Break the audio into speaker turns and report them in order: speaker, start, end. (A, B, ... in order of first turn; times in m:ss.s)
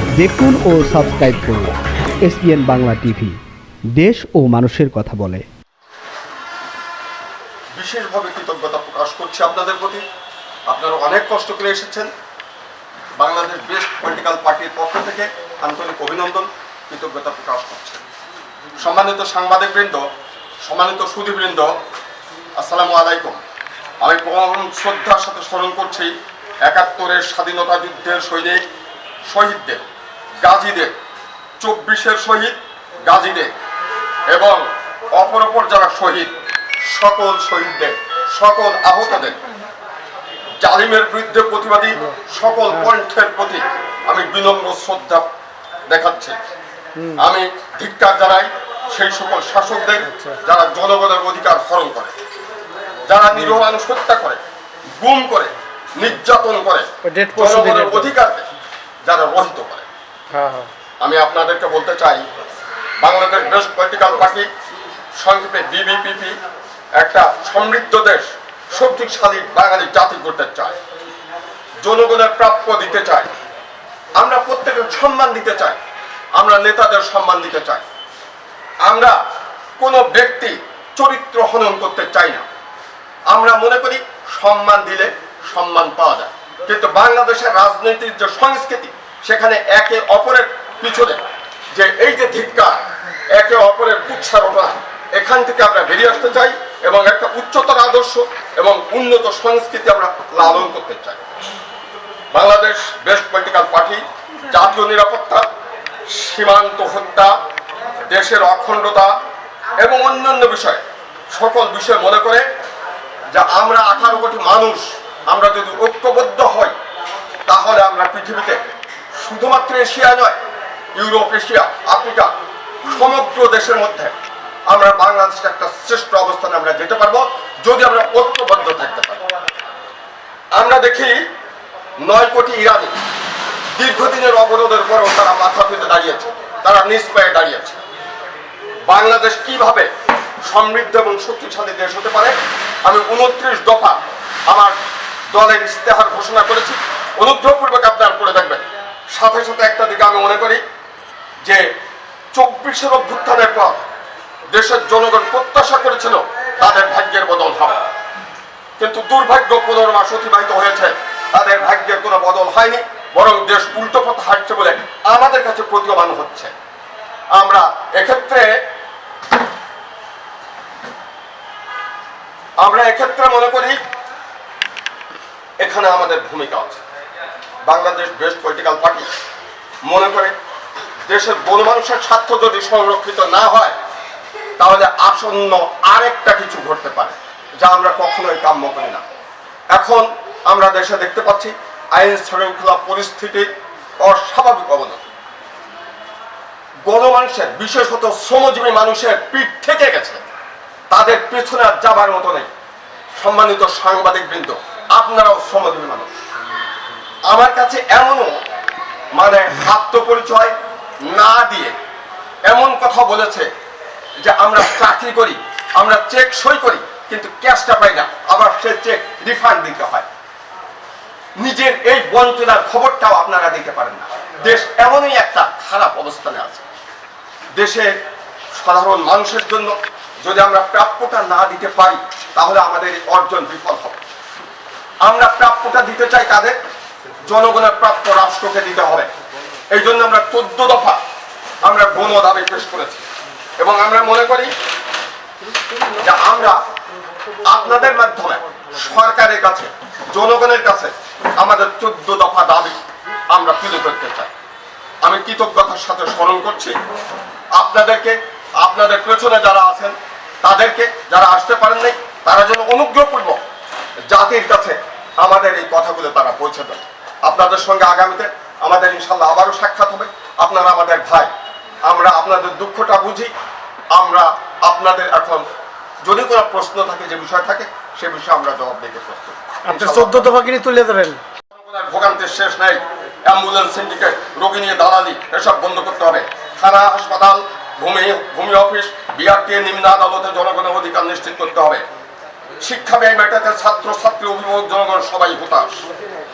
0:00.2-0:03.4 A
0:03.9-0:05.4 A
0:07.7-0:10.0 B
0:10.7-0:12.1 B
0:13.2-0:18.0 B
0:18.8-0:20.0 B
0:20.6-0:21.7 B
0:22.6-0:23.4 B
0:24.0-0:28.6 B
0:29.3-0:29.8 B
0:30.4-0:30.9 B
0:31.6-0:33.5 B
0:34.3-0:36.3 B
0:36.8-0:39.3 B
0:40.6-0:45.2 B
0:45.9-0:46.4 B
0:47.2-0:52.1 B
0:50.0-0:50.4 C
0:53.0-0:54.4 B
0:53.3-0:53.6 C
0:55.0-0:56.8 B
0:57.0-0:58.1 C
0:57.3-0:58.4 B
0:59.0-0:59.8 B
1:00.3-1:00.7 C
1:01.0-1:02.2 B
1:03.0-1:04.5 B
1:05.2-1:06.4 B
1:07.0-1:10.8 B
1:11.8-1:13.3 B
1:14.2-1:15.8 B
1:16.4-1:17.8 B
1:18.8-1:19.2 B
1:19.8-1:22.4 B
1:23.3-1:31.2 B
1:31.7-1:32.8 B
1:33.3-1:41.2 B
1:42.3-1:45.4 B
1:46.1-1:47.3 B
1:48.1-1:49.1 B
1:49.8-1:52.4 B
1:53.3-1:56.7 B
1:57.5-1:58.6 B
1:59.1-2:00.3 B
2:01.0-2:02.3 B
2:02.8-2:04.1 B
2:04.7-2:09.2 B
2:10.5-2:11.2 B
2:12.0-2:12.9 B
2:13.7-2:17.8 B
2:18.8-2:19.9 B
2:20.4-2:24.7 B
2:25.3-2:30.6 B
2:32.3-2:33.8 B
2:34.5-2:37.8 B
2:38.8-2:46.5 B
2:47.3-2:48.4 B
2:52.6-2:53.8 B
2:55.6-2:56.8 B
2:57.6-2:59.1 B
2:59.8-3:00.3 B
3:01.0-3:03.7 B
3:04.6-3:09.0 B
3:09.7-3:13.5 B
3:14.0-3:15.0 B
3:16.8-3:20.2 B
3:20.9-3:22.5 B
3:23.2-3:26.2 B
3:27.3-3:28.3 B
3:29.1-3:30.5 B
3:31.0-3:31.7 B
3:32.4-3:33.5 B
3:34.2-3:40.0 B
3:41.4-3:46.6 B
3:47.5-3:47.9 B
3:48.5-3:54.0 B
3:55.0-3:56.6 B
3:57.2-3:59.1 B
3:59.7-4:01.0 B
4:01.6-4:03.0 B
4:03.6-4:04.5 B
4:05.9-4:06.6 B
4:07.3-4:12.8 B
4:13.3-4:14.3 B
4:15.0-4:16.8 B
4:17.5-4:23.4 B
4:24.1-4:31.3 B
4:31.8-4:33.3 B
4:33.9-4:35.4 B
4:36.0-4:40.3 B
4:39.7-4:41.2 C
4:41.5-4:51.8 B
4:52.6-4:55.8 B